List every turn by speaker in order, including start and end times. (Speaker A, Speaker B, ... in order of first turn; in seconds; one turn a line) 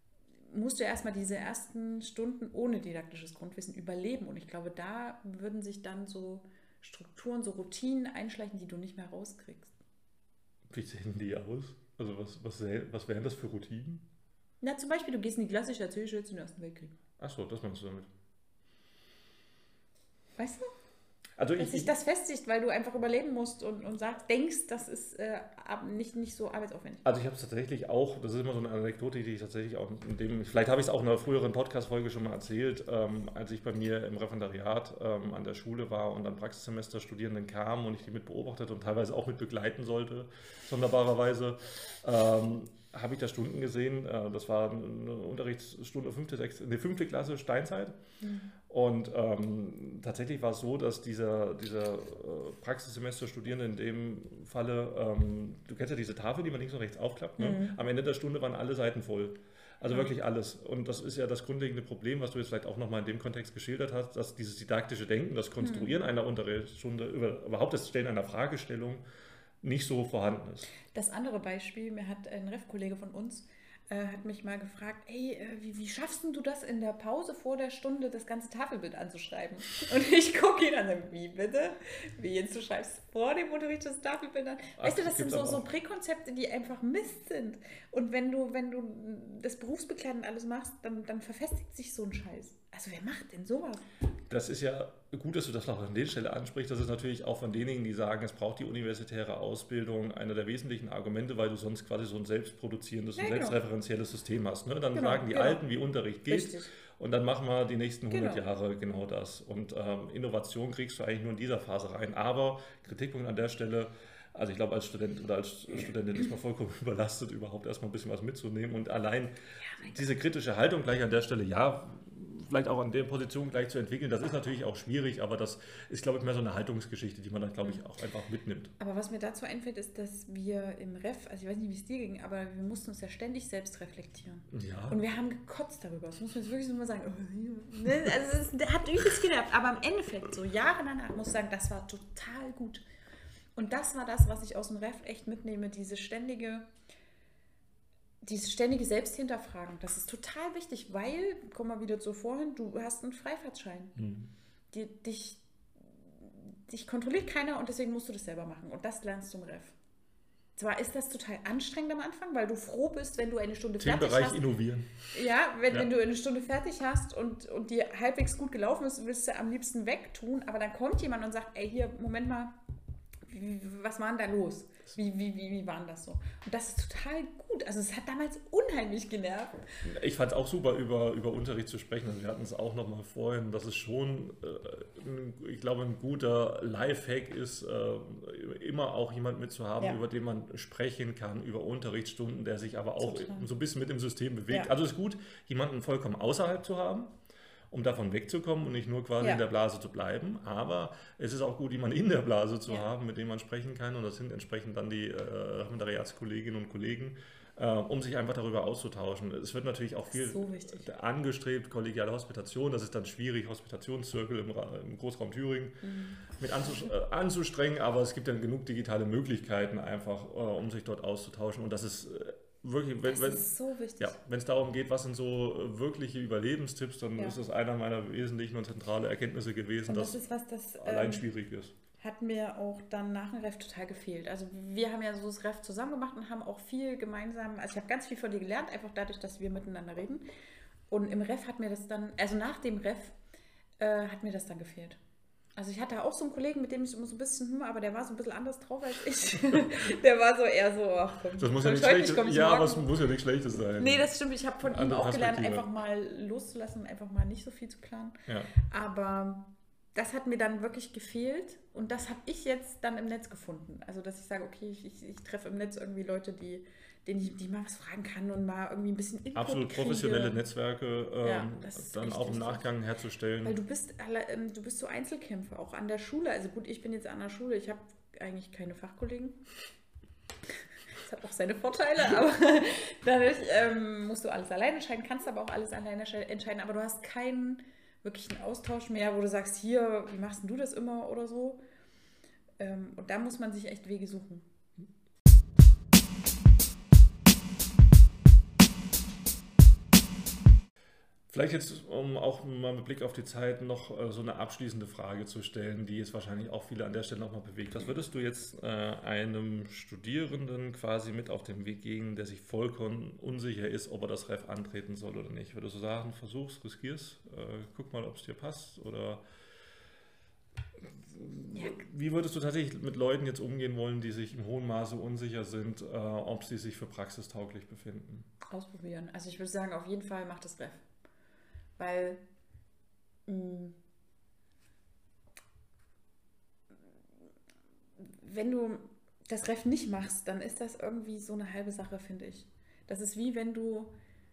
Speaker A: 0.5-9.7
Speaker B: 10.7-14.1
Speaker A: 14.6-16.9
Speaker B: 17.2-18.1
Speaker A: 20.4-20.7
Speaker B: 21.4-21.9
Speaker A: 21.6-27.1
Speaker B: 27.0-47.9
Speaker A: 48.2-48.5
Speaker B: 48.6-69.0
Speaker A: 57.4-57.8
Speaker A: 65.6-66.0
Speaker B: 69.6-70.7
Speaker A: 70.9-93.9
Speaker B: 84.8-85.7
Speaker B: 94.3-128.7
Speaker A: 103.2-103.6
Speaker A: 104.9-105.6
Speaker A: 106.3-106.7
Speaker A: 108.1-108.4
Speaker A: 128.8-142.8
Speaker B: 134.5-135.0
Speaker A: 143.6-146.7
Speaker A: 148.2-153.9
Speaker B: 153.9-154.3
Speaker A: 154.7-159.8
Speaker A: 160.6-164.4
Speaker B: 163.8-165.1
Speaker A: 165.1-172.5
Speaker A: 173.3-179.6
Speaker B: 179.8-197.1
Speaker A: 193.0-193.5
Speaker B: 197.7-230.2
Speaker A: 210.1-210.9
Speaker A: 215.8-216.3
Speaker A: 223.0-224.2
Speaker A: 229.8-231.2
Speaker B: 230.8-231.8
Speaker A: 232.0-240.2
Speaker A: 240.9-243.1
Speaker A: 243.8-245.0
Speaker A: 245.6-252.9
Speaker B: 251.4-254.1
Speaker A: 253.8-270.4
Speaker B: 254.6-255.7
Speaker B: 269.3-273.6
Speaker A: 271.2-272.6
Speaker A: 273.4-279.4
Speaker A: 280.9-291.6
Speaker A: 292.6-294.5
Speaker B: 301.3-319.2
Speaker B: 320.8-328.3
Speaker A: 321.5-321.8
Speaker A: 328.5-330.8
Speaker A: 331.8-332.2
Speaker A: 333.3-333.8
Speaker A: 338.0-343.9